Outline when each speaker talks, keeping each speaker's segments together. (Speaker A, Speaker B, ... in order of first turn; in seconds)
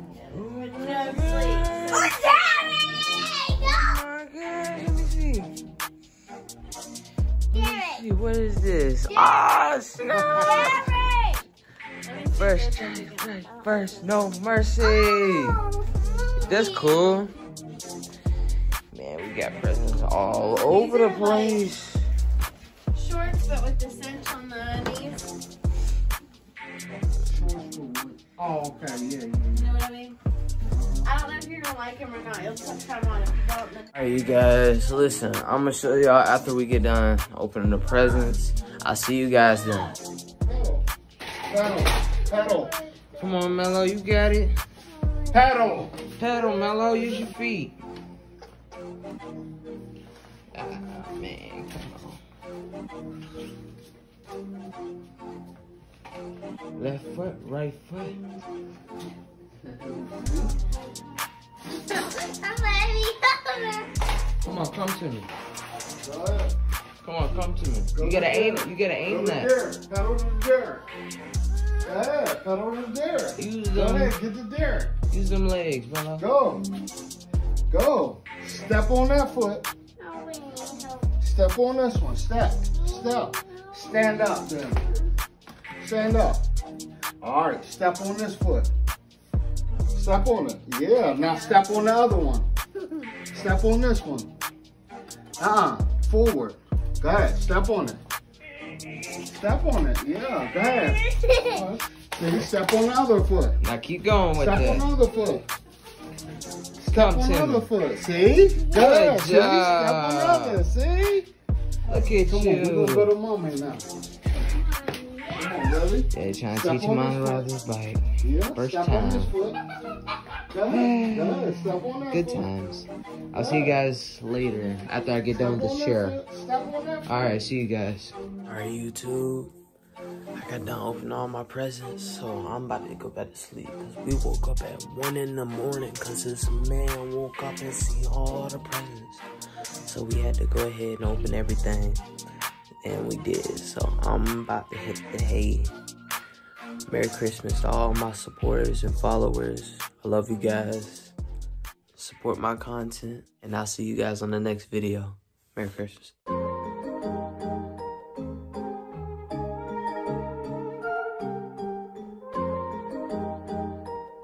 Speaker A: 0.3-2.7, 3.5-5.5, 7.5-11.0, 12.3-15.6, 16.4-17.3, 18.9-22.0, 33.9-39.9, 43.2-44.5, 46.2-47.8, 50.5-52.2, 56.7-58.2, 64.4-65.3, 67.0-69.5, 73.4-74.1, 75.1-76.2, 103.6-104.9, 106.9-107.7, 108.6-110.6, 111.9-113.1, 116.1-118.0, 118.5-119.3, 120.7-126.2, 127.0-129.5, 130.3-139.2, 139.8-142.0, 142.8-145.7, 146.9-151.1, 151.9-156.1
Speaker B: 0.6-3.8, 7.6-8.0, 10.1-11.4, 12.1-13.8, 14.9-15.8, 20.5-21.7, 22.9-25.2, 29.5-30.2, 31.0-33.9, 61.9-63.9, 80.0-81.1, 83.0-84.0, 101.2-101.6, 114.5-115.5
Speaker C: 27.2-29.7, 30.7-31.1, 40.5-40.8, 41.5-42.7, 45.3-45.9, 59.6-60.5, 66.0-66.5, 67.9-70.8, 71.8-74.9, 76.2-76.7, 77.7-79.7, 81.2-84.8, 85.8-86.4, 87.2-88.7, 89.9-92.5, 93.3-94.3, 95.4-98.0, 99.2-103.6, 104.3-105.5, 106.8-111.3, 112.2-113.9, 115.3-117.5, 118.2-119.6, 120.5-122.5, 123.3-123.8, 125.3-127.4